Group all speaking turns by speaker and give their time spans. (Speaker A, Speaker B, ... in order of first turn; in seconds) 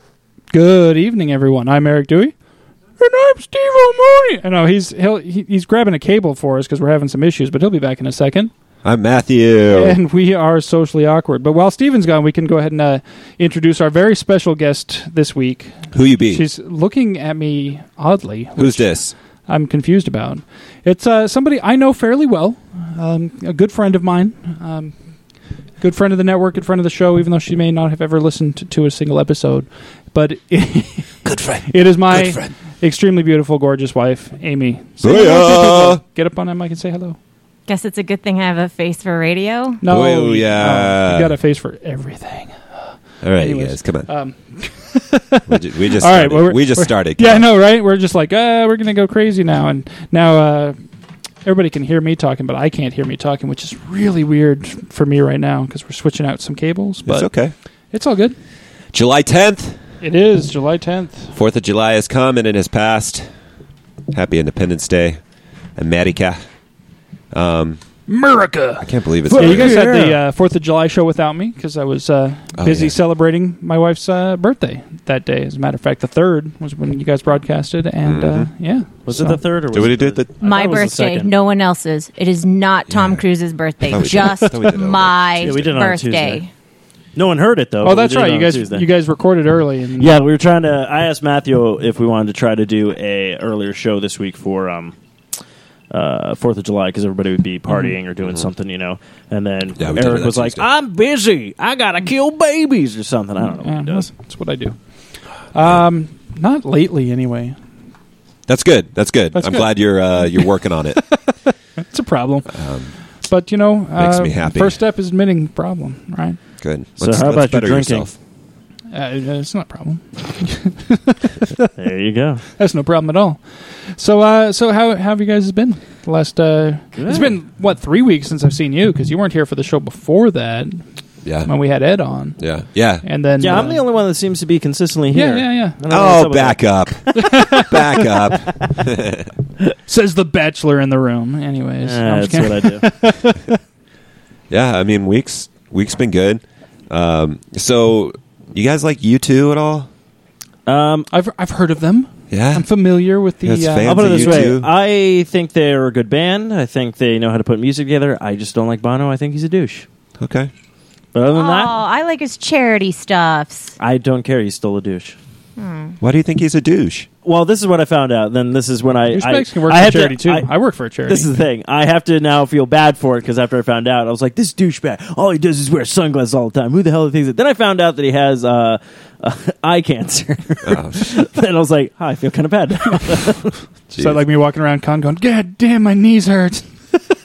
Speaker A: 0.5-2.3, 3.0-8.5, 9.7-24.9, 25.8-37.2, 39.8-50.8, 51.5-57.3, 57.9-58.4, 60.0-61.3, 68.1-79.4, 87.8-90.2, 97.7-98.0, 103.4-104.8, 105.5-107.6, 109.3-112.5, 113.2-116.4, 118.9-121.7, 122.6-123.4, 123.9-130.8, 131.4-132.4, 133.0-133.8, 135.1-135.8, 137.2-138.0, 139.9-143.6, 151.1-154.6, 169.1-171.3, 183.9-186.7
Speaker B: 8.8-10.0, 15.9-16.4, 18.6-19.1, 31.2-32.5, 35.0-36.0, 39.9-41.4, 43.2-44.1, 45.5-47.5, 57.1-57.5, 58.9-59.8, 61.3-63.3, 64.1-65.2, 65.8-66.4, 67.3-67.8, 68.8-69.9, 72.6-73.0, 78.0-78.5, 79.7-80.3, 82.9-83.2, 83.8-85.8, 99.8-100.7, 108.5-111.0, 112.5-112.9, 114.0-114.8, 116.6-118.2, 131.2-131.5, 132.4-133.7, 135.9-139.3, 144.5-149.9, 152.3-152.7, 153.4-154.7, 160.2-160.5, 166.0-167.1, 180.6-181.2, 183.9-184.2
Speaker C: 37.7-39.8, 80.4-86.5, 161.3-163.7, 165.6-166.0
Speaker D: 69.3-70.2, 79.1-81.3, 85.4-86.4, 87.2-88.9, 90.0-95.0, 95.9-104.1, 117.0-118.1, 121.8-122.4, 127.0-127.4, 133.4-137.4, 141.8-142.9, 150.7-151.1, 153.8-159.9, 161.1-161.8, 163.8-165.2, 167.2-170.5, 171.1-183.6